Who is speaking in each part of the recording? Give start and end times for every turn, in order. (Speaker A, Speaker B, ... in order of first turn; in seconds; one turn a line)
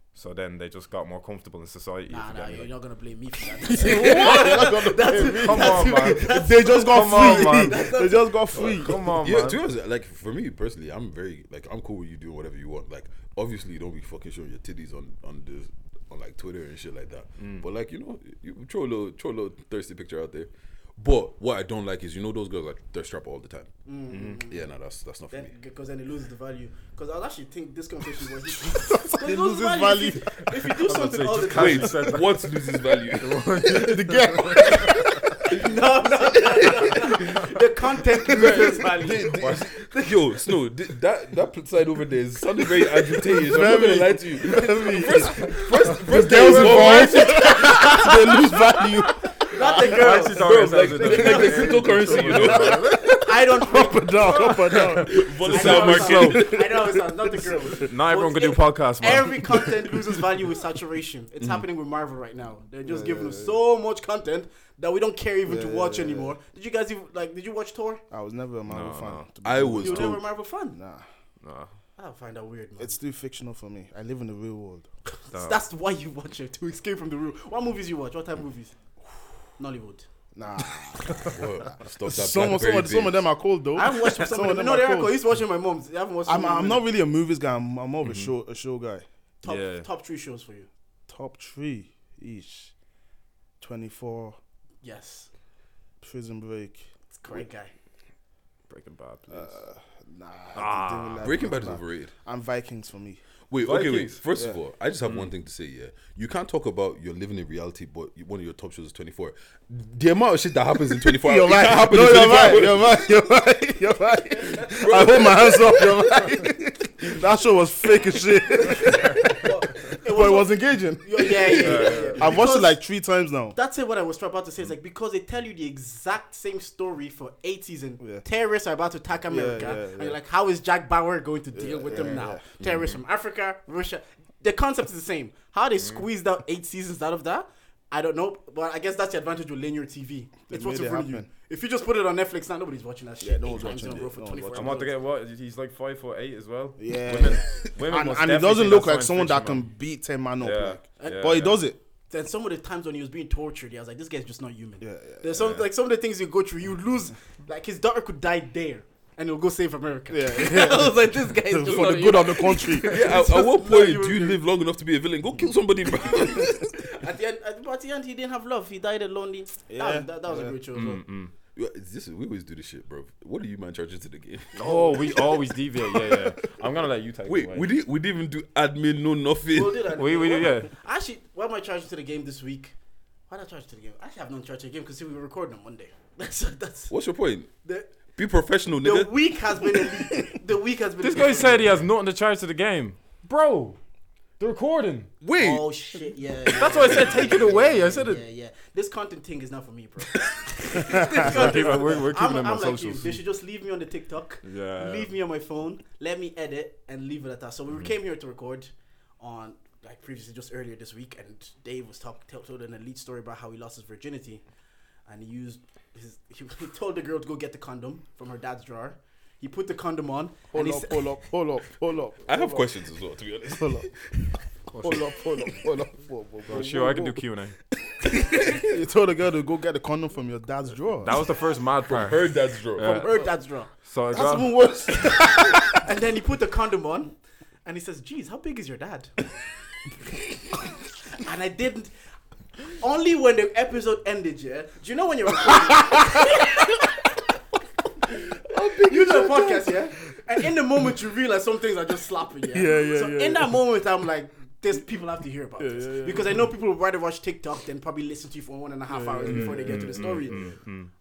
Speaker A: 0.1-2.7
Speaker B: 2.1-8.9
Speaker C: 3.7-9.1
Speaker A: 3.8-7.9
Speaker A: 8.5-9.6
Speaker D: 9.0-23.7
Speaker A: 17.4-17.7
Speaker B: 23.9-24.7
Speaker A: 24.1-24.4
Speaker D: 24.4-25.5
Speaker B: 25.3-32.1
Speaker C: 28.6-30.4
Speaker A: 30.8-35.1
Speaker D: 31.5-33.5
Speaker C: 33.6-35.4
Speaker B: 35.4-40.4
Speaker D: 38.3-47.5
Speaker C: 38.4-38.7
Speaker C: 43.3-49.2
Speaker A: 45.4-53.2
Speaker B: 47.4-48.1
Speaker B: 49.5-51.4
Speaker D: 49.9-52.9
Speaker C: 51.0-57.9
Speaker B: 53.2-54.6
Speaker A: 54.2-56.5
Speaker D: 55.0-56.5
Speaker B: 55.5-68.0
Speaker A: 57.8-59.7
Speaker C: 62.8-63.6
Speaker C: 65.5-66.4
Speaker C: 68.1-70.2
Speaker A: 68.7-69.3
Speaker D: 69.4-70.2
Speaker B: 69.8-70.8
Speaker C: 70.7-71.1
Speaker A: 71.4-71.7
Speaker B: 72.0-73.0
Speaker C: 72.8-74.9
Speaker B: 75.3-78.8
Speaker A: 75.3-75.6
Speaker B: 79.6-80.1
Speaker C: 80.3-81.4
Speaker D: 81.2-83.2
Speaker C: 82.0-85.2
Speaker B: 83.8-86.8
Speaker C: 86.3-89.0
Speaker A: 88.0-88.3
Speaker B: 89.4-90.7
Speaker A: 89.5-89.9
Speaker C: 91.1-92.7
Speaker C: 93.6-94.4
Speaker B: 94.8-95.3
Speaker C: 96.0-96.9
Speaker B: 97.1-97.7
Speaker A: 98.7-99.5
Speaker C: 99.3-103.2
Speaker A: 100.5-101.3
Speaker D: 101.2-102.1
Speaker D: 103.5-113.1
Speaker A: 103.6-104.2
Speaker A: 105.0-105.3
Speaker C: 111.0-123.6
Speaker D: 114.7-116.0
Speaker B: 118.6-122.8
Speaker A: 121.6-122.2
Speaker B: 123.5-144.9
Speaker C: 129.3-130.2
Speaker C: 131.5-132.4
Speaker A: 135.8-136.1
Speaker C: 140.5-141.3
Speaker C: 143.2-144.8
Speaker A: 144.5-149.7
Speaker C: 146.8-151.8
Speaker A: 150.4-151.6
Speaker B: 151.0-151.4
Speaker B: 152.1-164.4
Speaker C: 154.8-155.5
Speaker C: 160.1-163.0
Speaker D: 162.8-166.8
Speaker B: 166.0-171.0
Speaker C: 169.7-170.6
Speaker A: 170.7-171.3
Speaker D: 171.6-174.9
Speaker A: 174.6-177.7
Speaker C: 174.9-176.3
Speaker D: 177.3-179.9
Speaker B: 179.5-182.8
Speaker A: 180.0-180.7
Speaker B: 183.3-186.9
Speaker D: 186.9-187.5
Speaker B: 187.6-187.9
Speaker D: 188.2-189.1
Speaker B: 188.8-191.8
Speaker A: 191.0-193.8
Speaker A: 194.4-195.1
Speaker D: 195.2-195.7
Speaker B: 195.4-214.4
Speaker A: 196.6-198.2
Speaker C: 200.8-201.6
Speaker A: 200.9-203.2
Speaker A: 204.4-205.1
Speaker B: 215.1-221.1
Speaker C: 220.5-222.7
Speaker D: 222.3-223.9
Speaker C: 223.5-223.9
Speaker A: 224.7-225.1
Speaker C: 224.8-227.3
Speaker A: 226.5-227.6
Speaker C: 228.1-231.2
Speaker A: 231.0-233.2
Speaker D: 231.9-233.1
Speaker B: 232.8-233.7
Speaker A: 233.8-234.5
Speaker C: 234.1-235.8
Speaker B: 234.9-237.1
Speaker B: 237.7-239.1
Speaker B: 241.1-241.9
Speaker B: 242.8-246.8
Speaker C: 248.1-249.8
Speaker B: 248.8-260.5
Speaker C: 252.5-253.6
Speaker C: 255.6-256.5
Speaker C: 258.9-260.5
Speaker A: 259.3-260.9